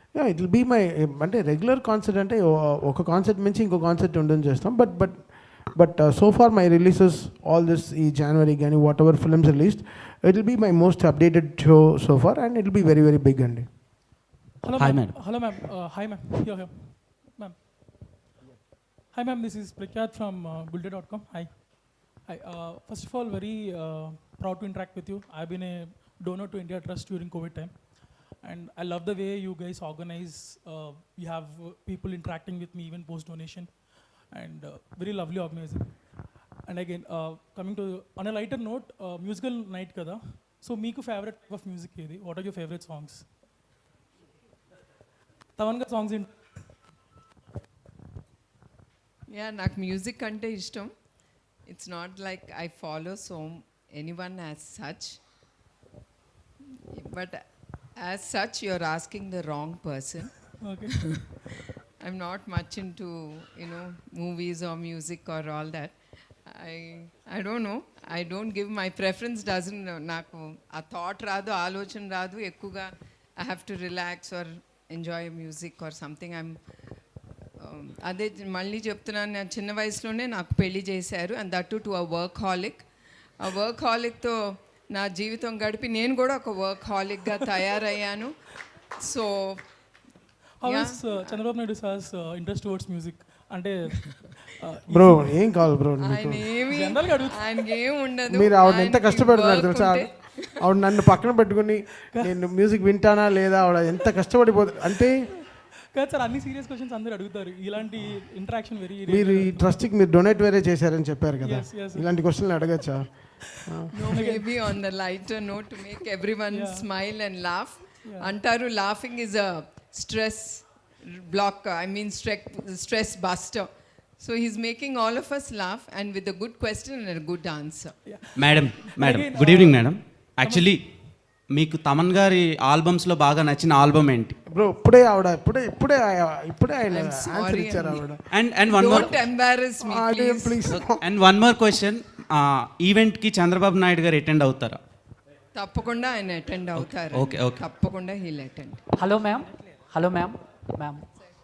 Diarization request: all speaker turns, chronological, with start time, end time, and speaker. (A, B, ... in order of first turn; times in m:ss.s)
0:00.1-0:13.6 A
0:14.6-0:17.6 B
0:14.7-0:15.1 C
0:19.1-0:21.6 B
0:22.2-0:36.0 B
0:36.6-0:43.2 B
0:45.6-0:46.3 B
0:49.3-0:50.9 D
0:51.7-0:55.2 D
0:56.9-0:57.4 D
0:58.0-1:00.5 D
1:00.6-1:01.2 B
1:01.1-1:01.5 D
1:02.0-1:06.0 D
1:06.5-1:16.6 D
1:17.6-1:22.8 D
1:23.4-1:24.4 D
1:24.9-1:28.3 D
1:28.9-1:29.6 D
1:30.6-1:35.3 B
1:30.6-1:31.4 D
1:34.9-1:36.5 A
1:36.0-1:40.6 D
1:36.7-1:37.4 B
1:38.3-1:45.3 A
1:45.9-1:49.7 B
1:49.0-1:54.0 A
1:51.4-1:52.0 B
1:53.9-2:07.9 D
1:54.1-1:54.5 B
1:56.5-1:56.9 B
2:08.0-2:09.7 B
2:08.4-2:10.8 C
2:11.5-2:14.4 C
2:14.5-2:18.2 A
2:16.9-2:18.0 D
2:18.3-2:19.1 C
2:18.7-2:20.6 D
2:19.8-2:21.0 A
2:20.7-2:24.8 C
2:25.5-2:28.8 D
2:26.8-2:27.6 C
2:29.0-2:31.0 E